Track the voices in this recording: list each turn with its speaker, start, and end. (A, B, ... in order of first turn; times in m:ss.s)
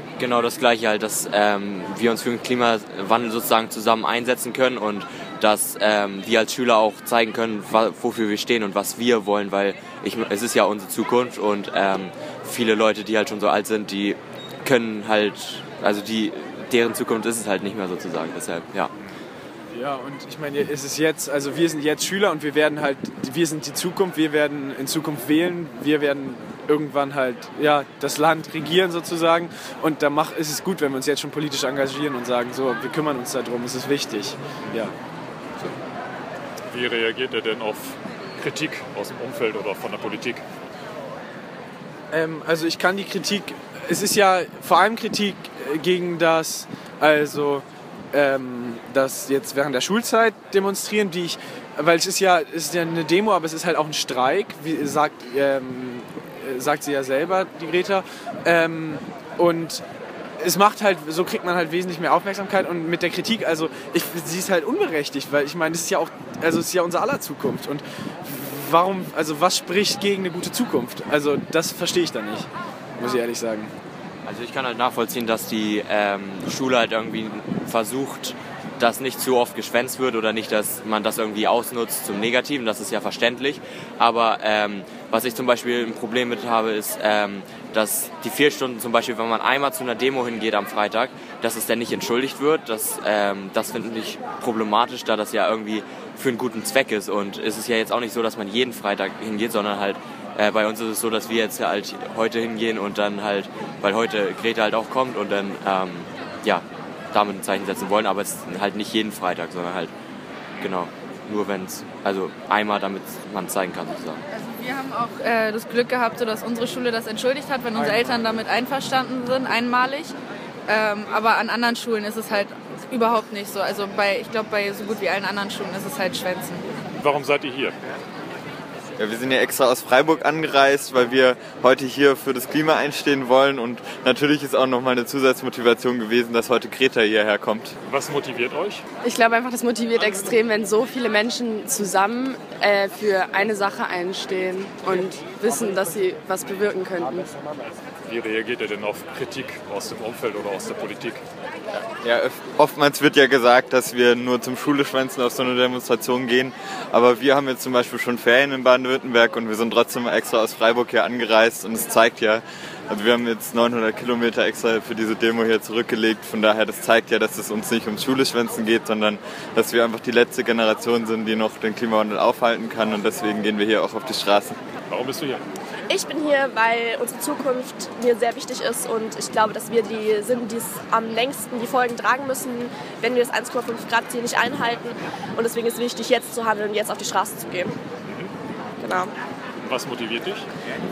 0:00.2-0:18.9 A
0:19.7-0:34.9 B
0:36.7-0:40.4 C
0:42.1-0:59.8 B
1:00.4-1:13.7 B
1:14.2-1:49.9 A
1:50.6-1:54.2 A
1:54.3-2:00.2 D
2:00.7-2:06.6 D
2:07.0-2:07.8 C
2:09.0-2:17.8 E
2:17.9-2:18.8 C
2:19.0-2:27.3 F
2:28.1-2:31.2 C
2:32.0-2:54.6 E
2:54.9-2:55.4 C
2:55.9-3:07.8 G
3:08.0-3:08.3 C
3:08.8-3:09.1 G
3:09.6-3:10.5 C